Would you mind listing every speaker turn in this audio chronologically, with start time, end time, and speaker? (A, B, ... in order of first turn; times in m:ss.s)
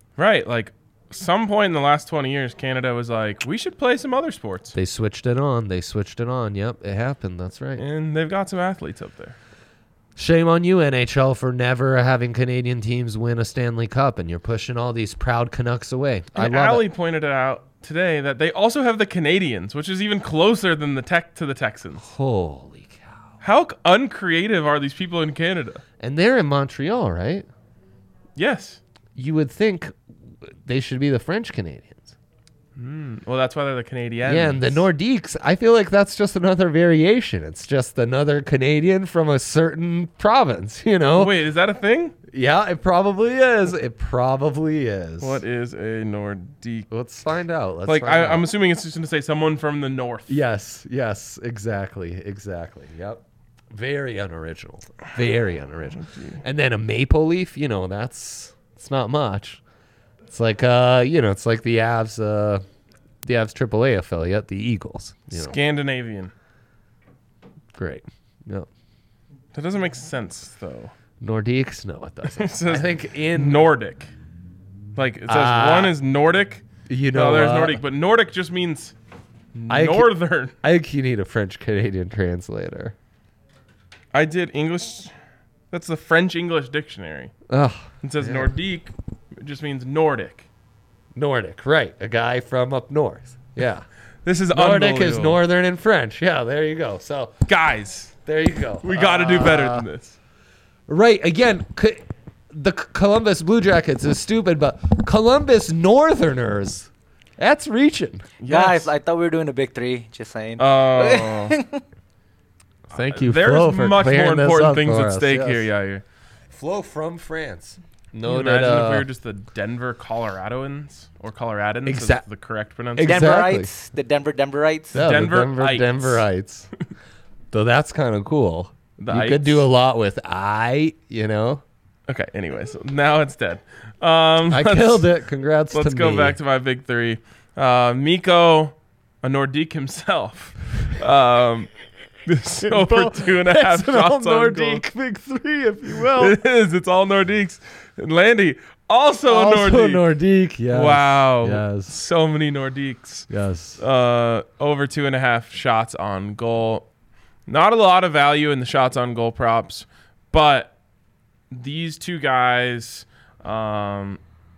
0:00.2-0:04.8 A
0:04.7-0:07.8 B
0:07.8-0:09.4 A
0:10.2-0:16.8 B
0:16.4-0:22.0 A
0:22.0-0:23.3 B
0:23.4-0:25.8 A
0:26.0-0:27.5 B
0:28.4-0:28.8 A
0:29.1-0:32.1 B
0:32.8-0:34.8 A
0:34.2-0:41.4 B
0:41.1-0:42.2 A
0:42.3-0:45.4 B
0:45.2-0:46.9 A
0:46.9-0:48.5 B
0:47.8-0:50.4 A
0:50.3-0:59.6 B
0:55.9-0:56.4 A
1:00.3-1:02.6 B
1:03.2-1:05.6 B
1:05.3-1:06.3 A
1:07.8-1:08.7 B
1:09.5-1:10.9 A
1:11.2-1:13.7 B
1:12.3-1:14.1 A
1:14.9-1:18.9 A
1:15.3-1:16.0 B
1:16.9-1:17.8 B
1:19.5-1:20.5 A
1:19.7-1:22.9 B
1:24.1-1:25.1 A
1:25.7-1:27.3 A
1:27.5-1:28.5 B
1:28.0-1:30.5 A
1:31.1-1:33.9 B
1:34.2-1:35.4 A
1:34.5-1:37.4 B
1:37.4-1:38.2 A
1:38.2-1:39.9 B
1:38.8-1:40.2 A
1:40.9-1:48.2 B
1:48.4-1:48.9 A
1:48.5-1:51.8 C
1:50.6-1:51.6 A
1:52.9-1:55.7 B
1:52.9-1:56.0 A
1:56.5-1:59.1 B
1:58.2-2:03.4 A
2:01.8-2:02.2 B
2:03.0-2:03.7 B
2:03.0-2:05.0 C
2:04.9-2:06.7 B
2:05.0-2:06.2 A
2:07.5-2:11.6 B
2:09.0-2:09.7 A
2:12.1-2:15.1 A
2:14.5-2:16.4 B
2:15.7-2:21.7 A
2:22.2-2:24.8 A
2:22.6-2:26.4 B
2:26.1-2:30.1 A
2:29.3-2:32.0 B
2:30.7-2:36.8 A
2:33.3-2:33.8 B
2:37.5-2:40.7 A
2:41.5-2:44.2 A